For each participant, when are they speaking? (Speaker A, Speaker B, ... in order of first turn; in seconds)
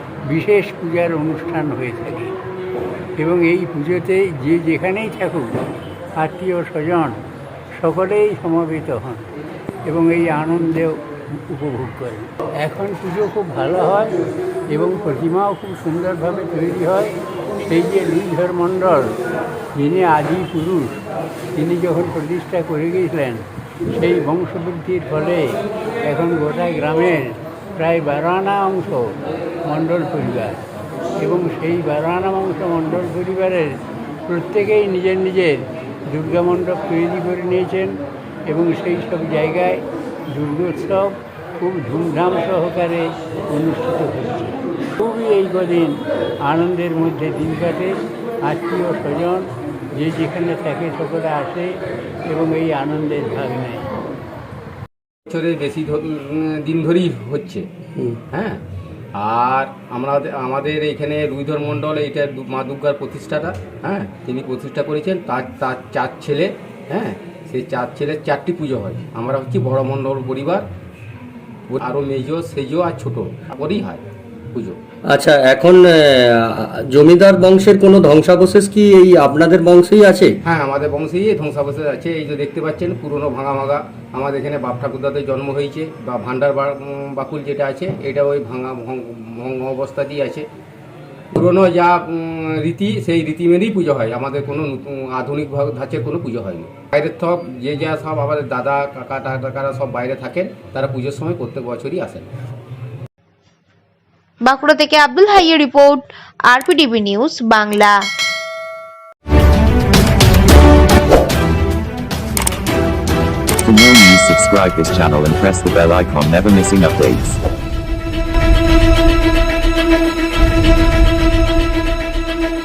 Speaker A: 0.2-2.3, 3.2-5.5, 6.2-7.2, 7.8-9.3, 9.8-14.1, 14.7-19.2, 19.7-21.0, 21.5-30.6, 31.2-51.8, 52.3-53.9
Speaker B: 55.3-57.7, 58.3-58.6, 59.2-70.7, 71.7-74.8, 80.4-90.5, 91.3-102.3
Speaker C: 75.1-80.4
Speaker D: 104.5-108.0
Speaker E: 113.6-117.4